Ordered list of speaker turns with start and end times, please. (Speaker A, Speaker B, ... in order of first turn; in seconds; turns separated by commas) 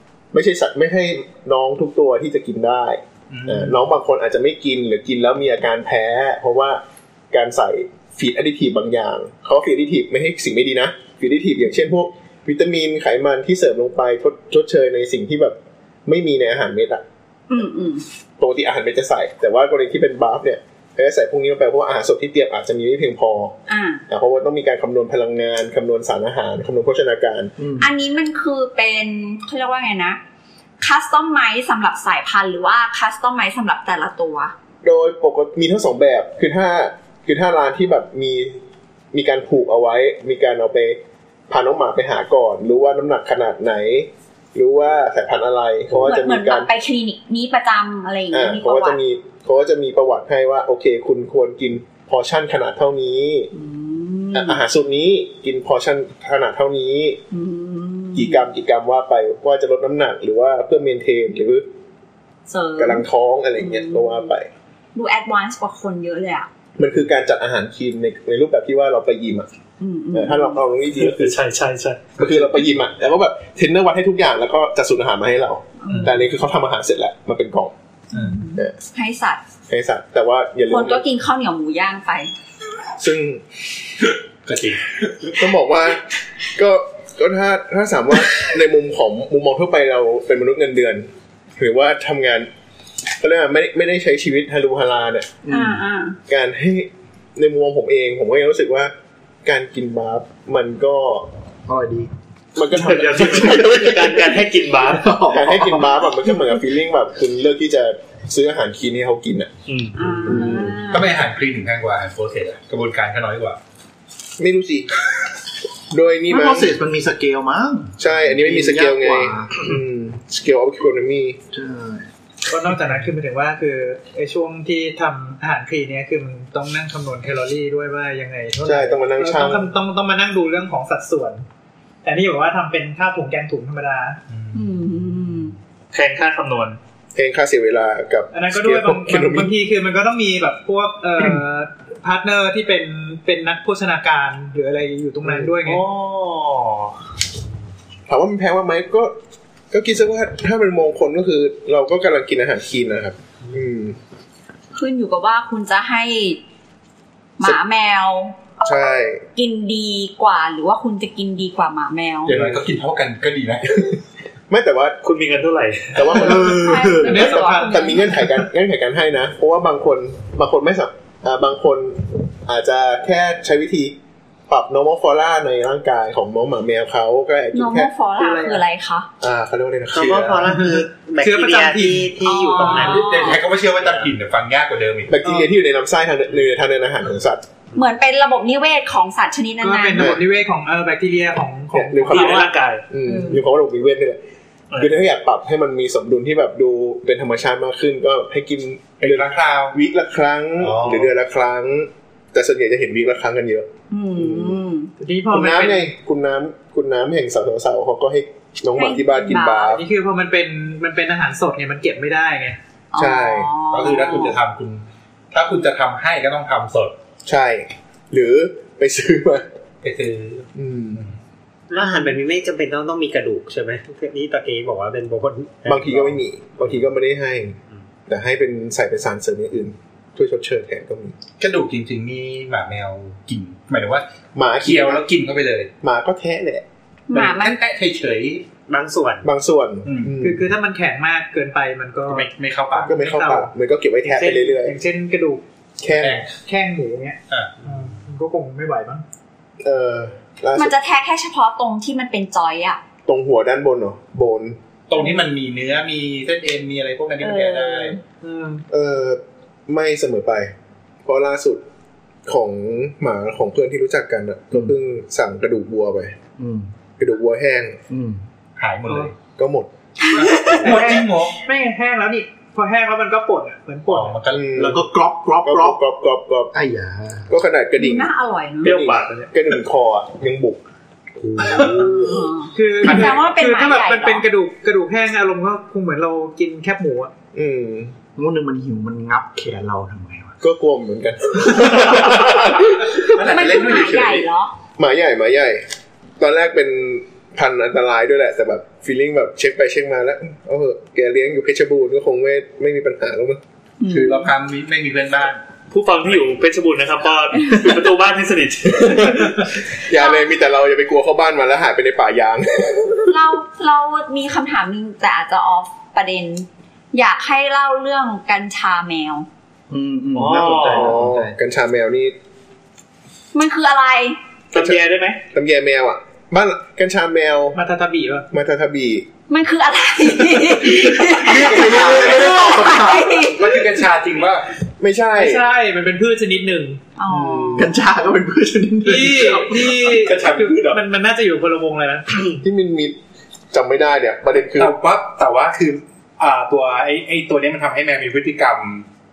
Speaker A: 0.3-17.0, Speaker B: 3.3-3.8, Speaker C: 17.5-18.0, Speaker A: 18.4-23.6, Speaker C: 23.7-24.0, Speaker A: 24.1-27.5, Speaker D: 27.6-27.9, Speaker C: 27.8-30.2, Speaker C: 30.8-34.5, Speaker A: 34.8-38.6, Speaker A: 39.1-46.7, Speaker C: 46.0-49.0, Speaker A: 48.3-53.5, Speaker C: 53.5-54.6, Speaker A: 54.3-57.2, Speaker C: 57.3-58.5, Speaker A: 58.1-61.6, Speaker C: 62.5-63.0, Speaker A: 62.8-64.5, Speaker C: 63.6-64.3, Speaker C: 64.9-66.5, Speaker A: 66.8-69.5, Speaker C: 69.8-70.6, Speaker A: 70.1-71.4, Speaker E: 71.0-72.1, Speaker A: 72.2-77.7, Speaker B: 72.2-72.5, Speaker C: 75.8-76.2, Speaker B: 75.9-76.2, Speaker C: 78.1-79.4, Speaker B: 78.1-78.4, Speaker A: 79.7-81.0, Speaker C: 80.7-82.3, Speaker A: 83.0-83.4, Speaker B: 84.4-85.4, Speaker A: 85.3-92.5, Speaker A: 93.2-95.3, Speaker D: 95.4-95.8, Speaker C: 95.5-96.2, Speaker A: 96.3-98.9, Speaker A: 99.4-101.3, Speaker D: 101.7-102.1, Speaker A: 102.5-104.2, Speaker E: 102.7-105.1, Speaker D: 103.3-104.1, Speaker D: 104.8-106.0, Speaker A: 105.3-109.5, Speaker E: 109.7-110.2, Speaker C: 110.0-111.2, Speaker A: 110.2-110.8, Speaker B: 110.8-113.6, Speaker A: 114.4-114.9, Speaker A: 115.9-116.8, Speaker D: 116.3-119.8, Speaker A: 118.0-121.4, Speaker D: 121.5-122.1, Speaker F: 122.5-131.4, Speaker A: 128.6-129.7, Speaker F: 132.0-134.2, Speaker B: 134.3-135.5, Speaker C: 134.5-135.5, Speaker E: 135.9-136.8, Speaker A: 137.1-139.5, Speaker F: 138.3-145.8, Speaker E: 145.6-146.9, Speaker A: 148.1-149.1, Speaker A: 149.7-154.0, Speaker C: 154.7-156.4, Speaker C: 157.4-158.6, Speaker A: 158.6-159.2, Speaker C: 159.3-162.3, Speaker B: 162.2-164.0, Speaker A: 162.3-162.6, Speaker A: 164.5-165.0, Speaker E: 165.0-166.3, Speaker A: 165.9-174.0, Speaker D: 166.1-167.3, Speaker C: 166.4-168.2, Speaker F: 167.0-167.9, Speaker A: 174.5-177.9, Speaker C: 177.5-179.1, Speaker F: 178.2-178.6, Speaker A: 179.2-180.5, Speaker G: 179.9-184.0, Speaker F: 180.5-183.0, Speaker C: 182.2-183.4, Speaker B: 182.9-185.2, Speaker A: 185.1-187.4, Speaker C: 187.7-190.1, Speaker F: 189.6-192.5, Speaker A: 191.7-194.2, Speaker E: 192.1-192.8, Speaker C: 193.0-193.4, Speaker E: 194.7-195.0, Speaker A: 194.8-204.6, Speaker B: 199.0-199.8, Speaker B: 200.6-201.1, Speaker C: 203.9-204.9, Speaker F: 205.0-205.9, Speaker A: 205.3-209.8, Speaker C: 208.7-209.7, Speaker F: 209.7-212.6, Speaker C: 212.9-214.4, Speaker A: 212.9-213.5, Speaker B: 213.6-216.9, Speaker A: 217.2-219.5, Speaker B: 219.8-221.2, Speaker A: 220.6-221.0, Speaker G: 221.7-225.9, Speaker A: 225.7-231.2, Speaker B: 231.4-234.1, Speaker A: 234.3-235.0, Speaker B: 234.6-235.7, Speaker A: 235.8-236.6, Speaker C: 237.1-237.6, Speaker B: 237.1-238.4, Speaker G: 238.7-239.3, Speaker A: 239.2-240.4, Speaker B: 239.8-240.2, Speaker F: 240.2-243.5, Speaker B: 242.1-243.0, Speaker A: 242.9-244.7, Speaker F: 244.0-245.4, Speaker A: 245.8-246.2, Speaker B: 245.9-246.3, Speaker F: 246.4-249.0, Speaker B: 247.3-247.5, Speaker A: 249.6-250.7, Speaker C: 250.6-252.8, Speaker A: 253.1-254.6, Speaker B: 254.9-258.0, Speaker C: 257.2-258.0, Speaker F: 258.2-258.6, Speaker A: 258.7-260.5, Speaker A: 261.0-261.6, Speaker A: 262.2-266.1, Speaker D: 266.4-266.7, Speaker A: 267.0-267.8, Speaker D: 267.9-268.2, Speaker B: 268.6-269.1, Speaker F: 268.9-269.1, Speaker A: 269.4-269.7, Speaker C: 270.0-270.8, Speaker B: 270.1-271.4, Speaker F: 270.6-274.2, Speaker B: 273.9-274.7, Speaker A: 274.3-274.8, Speaker D: 274.5-275.8, Speaker A: 275.4-276.5, Speaker D: 276.5-277.3, Speaker A: 277.3-278.1, Speaker C: 277.8-278.7, Speaker A: 278.6-280.6, Speaker E: 278.6-279.3, Speaker D: 281.2-282.2, Speaker B: 281.4-282.0, Speaker C: 281.7-284.2, Speaker F: 282.5-287.1, Speaker B: 282.8-283.2, Speaker A: 287.3-287.9, Speaker D: 288.1-290.3, Speaker A: 290.4-293.2, Speaker B: 292.6-294.2, Speaker C: 293.1-294.5, Speaker A: 294.8-295.6, Speaker A: 296.2-303.4, Speaker C: 303.8-304.3, Speaker B: 303.8-305.4, Speaker E: 305.7-309.4, Speaker A: 308.8-313.1, Speaker C: 309.9-310.3, Speaker C: 313.1-319.3, Speaker D: 319.7-321.4, Speaker E: 320.1-321.0, Speaker A: 320.6-322.1, Speaker C: 323.3-324.2, Speaker E: 324.5-325.2, Speaker A: 324.5-327.6, Speaker F: 327.5-328.2, Speaker A: 328.3-329.1, Speaker C: 329.3-333.6, Speaker B: 330.9-332.4, Speaker A: 331.3-332.4, Speaker D: 331.4-333.1, Speaker B: 333.1-334.4, Speaker A: 334.8-335.4, Speaker F: 335.1-336.8, Speaker C: 337.0-337.7, Speaker A: 337.1-337.7, Speaker D: 337.6-339.2, Speaker F: 338.8-342.4, Speaker B: 339.2-340.8, Speaker A: 342.4-343.0, Speaker A: 343.5-344.7, Speaker B: 344.6-348.9